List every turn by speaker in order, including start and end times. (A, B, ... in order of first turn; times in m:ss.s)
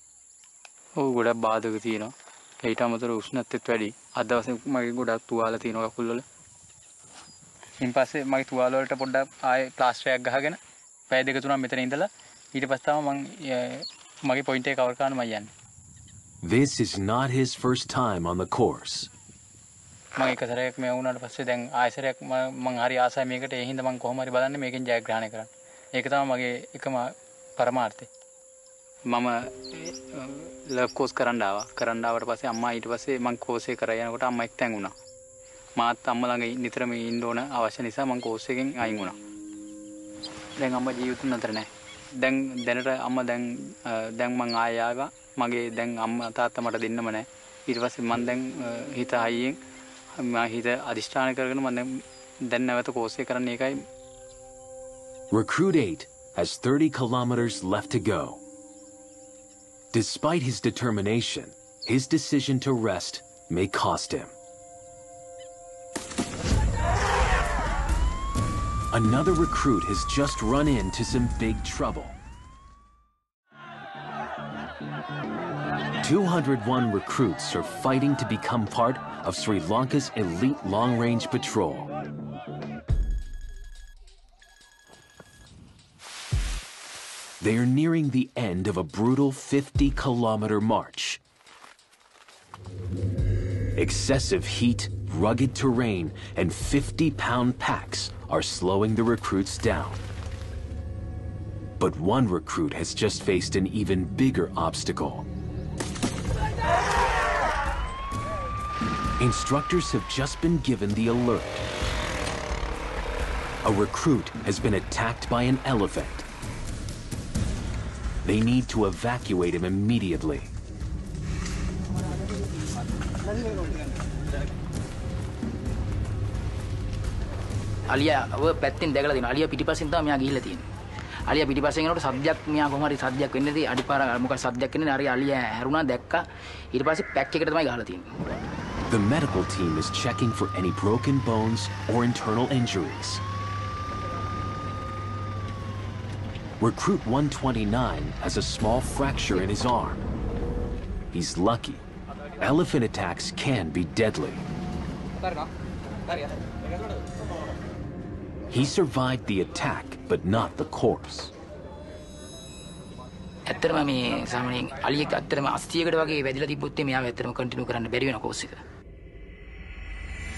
0:01.0-0:06.2 A
0:07.8-0:10.6 A
0:11.1-0:15.5 A
0:16.4-0:19.1 B
0:20.2-0:28.1 A
0:29.1-0:34.9 A
0:35.8-0:39.2 A
0:40.6-0:49.6 A
0:50.2-0:53.8 A
0:55.3-0:58.4 B
0:59.9-1:04.3 B
1:08.9-1:12.2 B
1:16.0-1:21.9 B
1:27.4-1:31.2 B
1:33.8-1:40.0 B
1:41.8-1:45.3 B
1:49.2-1:51.6 B
1:53.6-1:56.2 B
1:58.2-2:00.5 B
2:07.9-2:10.6 C
2:11.3-2:18.1 C
2:18.9-2:23.2 B
2:26.6-2:30.0 B
2:31.1-2:31.8 B
2:32.4-2:34.4 B
2:38.5-2:41.3 B
2:43.5-2:48.6 C